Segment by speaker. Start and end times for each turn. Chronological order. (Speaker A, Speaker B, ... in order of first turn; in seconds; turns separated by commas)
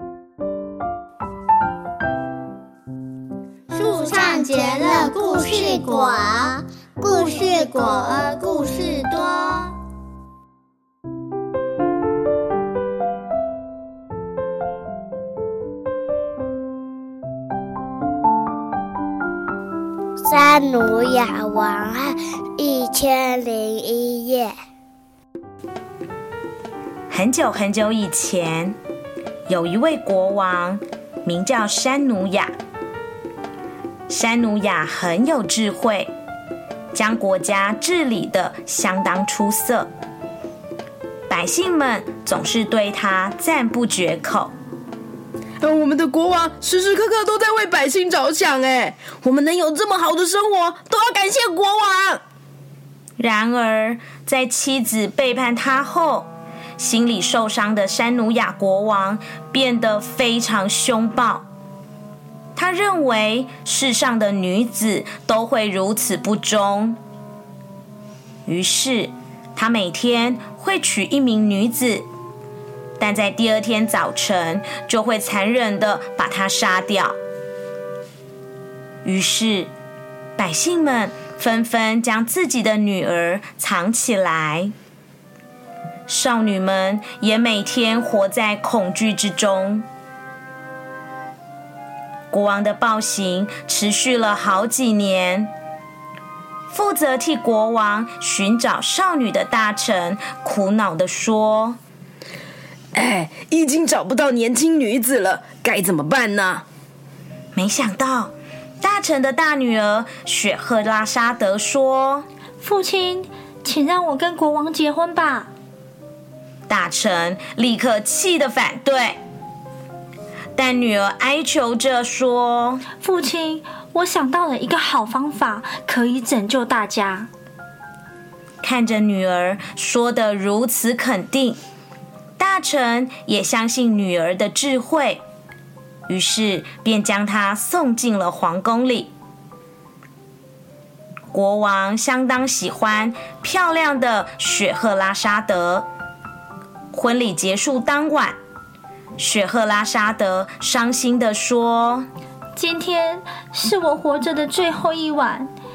Speaker A: 3.7-9.8, Speaker B: 20.2-24.6, Speaker C: 27.1-28.8, Speaker C: 29.5-32.5, Speaker C: 34.1-36.1, Speaker C: 36.9-39.9, Speaker C: 41.3-44.5, Speaker D: 45.6-52.2, Speaker C: 53.2-56.3, Speaker C: 56.8-61.4, Speaker C: 62.6-67.0, Speaker C: 68.5-72.0, Speaker C: 73.0-77.2, Speaker C: 79.0-79.7, Speaker C: 80.4-84.7, Speaker C: 86.1-89.9, Speaker C: 92.3-95.5, Speaker C: 96.7-101.8, Speaker D: 102.9-106.7, Speaker C: 107.5-112.3, Speaker E: 112.6-115.5, Speaker C: 116.7-119.2, Speaker C: 120.6-122.8, Speaker E: 123.0-127.3, Speaker C: 128.6-131.6, Speaker C: 132.4-135.2, Speaker C: 136.1-139.1, Speaker C: 141.3-145.9, Speaker C: 146.9-148.4, Speaker C: 149.2-152.1, Speaker E: 152.6-155.5